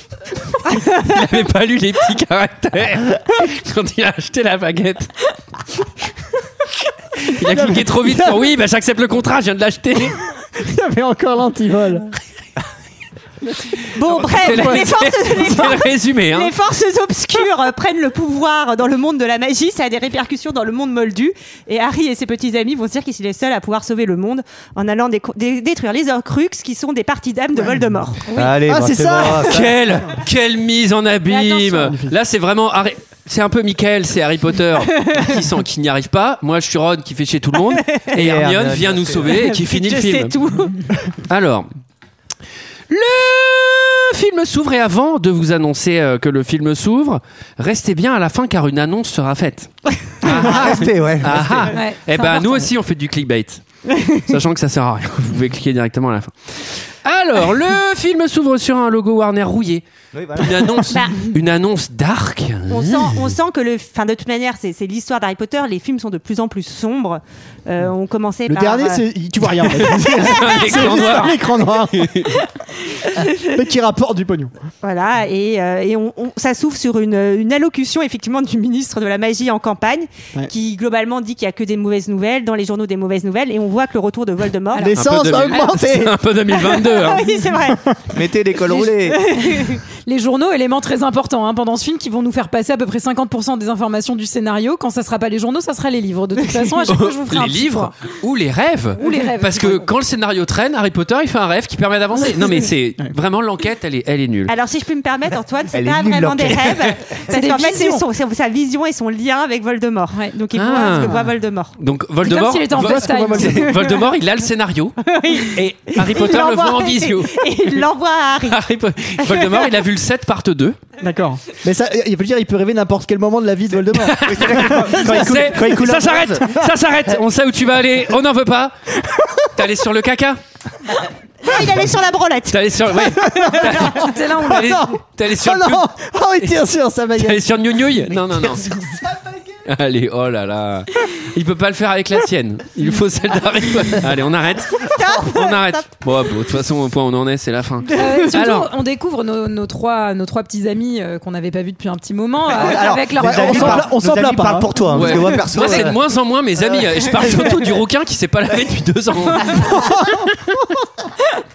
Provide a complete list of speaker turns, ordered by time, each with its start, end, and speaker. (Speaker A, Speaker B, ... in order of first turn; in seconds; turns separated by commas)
Speaker A: 0.6-5.1, Speaker A: 7.2-10.2, Speaker B: 7.4-8.5, Speaker B: 10.6-12.1, Speaker C: 13.9-28.4, Speaker A: 14.2-16.5, Speaker B: 14.2-14.8, Speaker D: 28.3-29.7, Speaker B: 28.6-30.2, Speaker A: 29.4-40.3, Speaker E: 31.3-31.9, Speaker B: 31.8-32.1, Speaker C: 37.7-38.1, Speaker D: 38.1-39.4, Speaker C: 39.2-40.8, Speaker A: 41.3-41.7, Speaker A: 42.9-59.8, Speaker D: 50.2-51.8, Speaker E: 51.7-52.7, Speaker D: 60.1-60.8, Speaker A: 60.4-63.2, Speaker C: 60.9-61.2, Speaker C: 62.7-69.0, Speaker B: 68.5-72.1, Speaker A: 69.8-72.4, Speaker B: 73.2-74.5, Speaker C: 74.8-84.9, Speaker E: 84.8-85.8, Speaker B: 84.8-86.1, Speaker A: 84.9-87.3, Speaker C: 86.7-87.8, Speaker D: 88.1-89.2, Speaker C: 88.7-89.8, Speaker E: 89.4-98.0, Speaker A: 96.9-104.5, Speaker E: 99.0-99.9, Speaker C: 104.5-111.8, Speaker D: 105.7-107.0, Speaker E: 107.3-108.0, Speaker A: 110.5-111.2, Speaker A: 111.8-117.8, Speaker E: 112.2-113.7, Speaker B: 112.8-113.8, Speaker C: 115.1-118.6, Speaker A: 118.5-120.8, Speaker C: 119.2-119.7, Speaker B: 121.0-125.4, Speaker A: 124.0-128.8, Speaker D: 124.2-126.5, Speaker B: 129.0-129.4, Speaker A: 129.5-130.4, Speaker C: 131.4-132.6, Speaker A: 132.5-135.9, Speaker B: 133.1-137.4, Speaker E: 134.0-134.8, Speaker A: 137.2-138.8, Speaker A: 139.7-148.7, Speaker C: 144.8-145.9, Speaker E: 147.9-153.9, Speaker D: 152.5-156.0, Speaker B: 153.2-154.9, Speaker A: 154.9-160.6, Speaker D: 156.6-157.6, Speaker B: 159.6-160.3